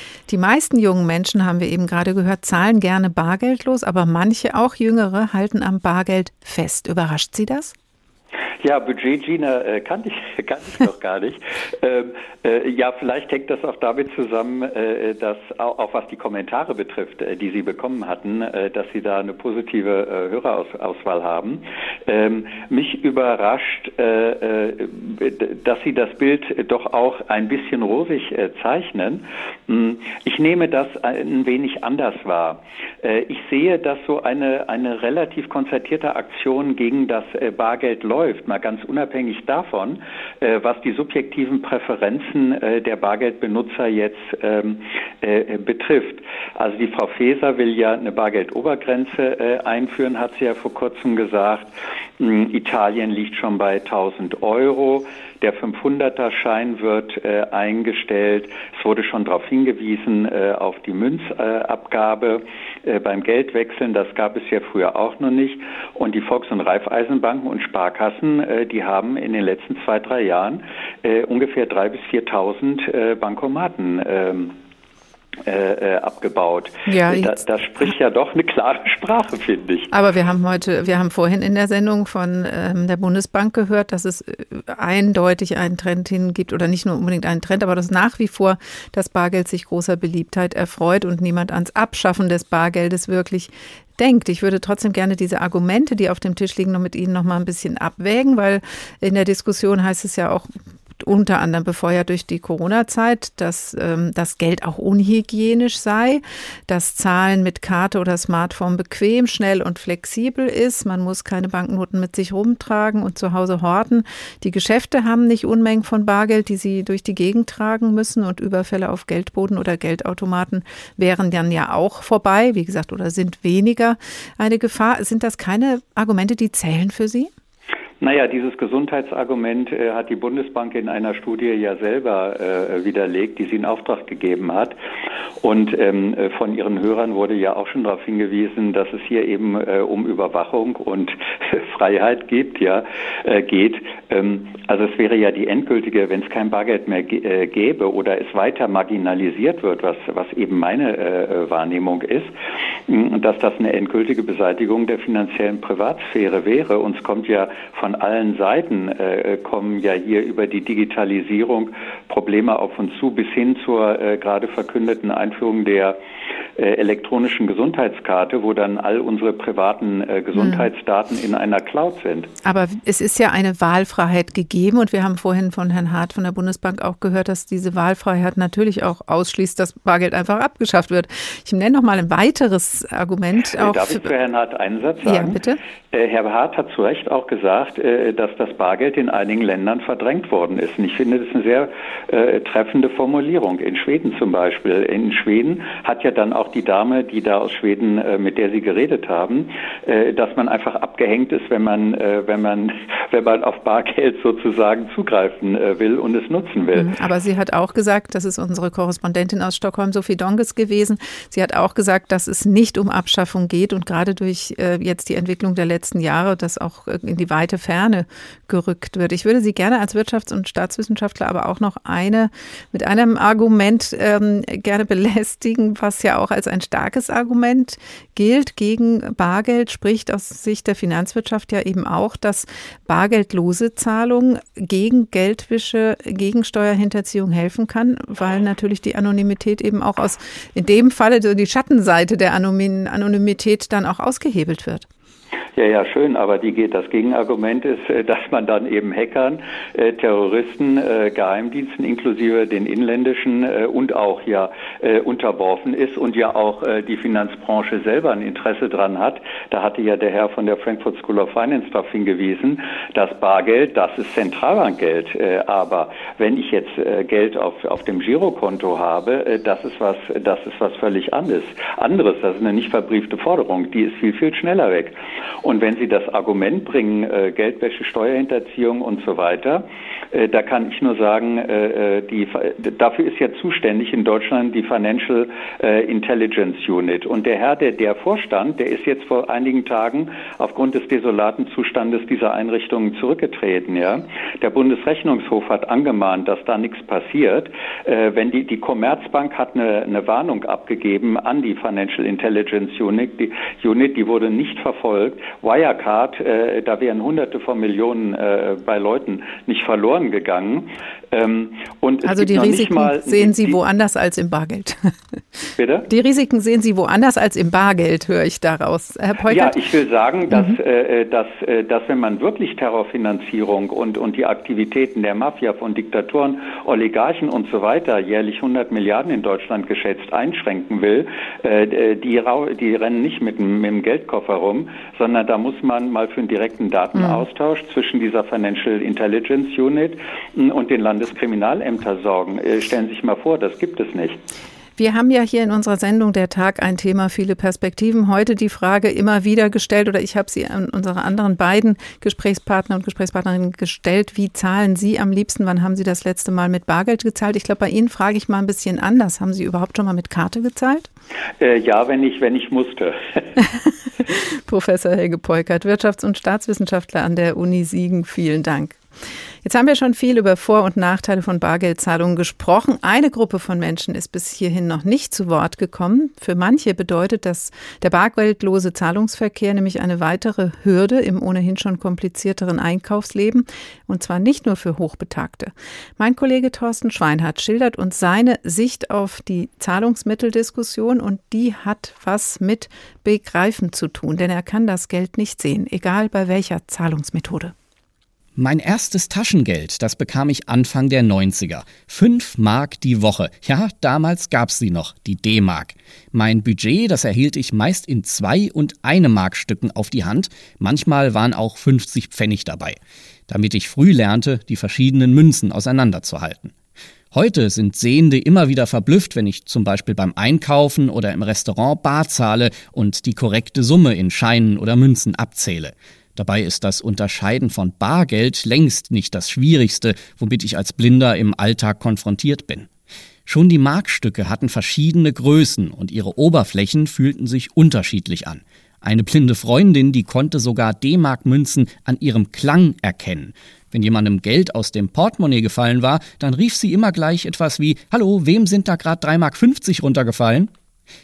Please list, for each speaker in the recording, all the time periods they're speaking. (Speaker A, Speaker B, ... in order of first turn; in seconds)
Speaker A: 0.3-7.7, 76.9-77.4, 79.9-127.3, 170.4-170.7, 172.4-184.0, 185.1-185.6, 206.8-244.9, 312.0-314.9, 315.9-319.6, 320.3-320.6, 337.0-337.2, 344.8-360.9, 364.1-368.8, 369.4-397.5
Speaker B: 8.6-51.7, 52.2-74.5, 75.5-79.9, 128.0-134.8, 135.4-152.3, 152.9-166.0, 166.6-172.3, 183.5-185.4, 185.9-206.9, 245.6-313.6, 315.6-315.9, 319.3-344.2, 361.4-363.0
Speaker C: 398.4-416.5, 417.1-432.7, 433.3-450.5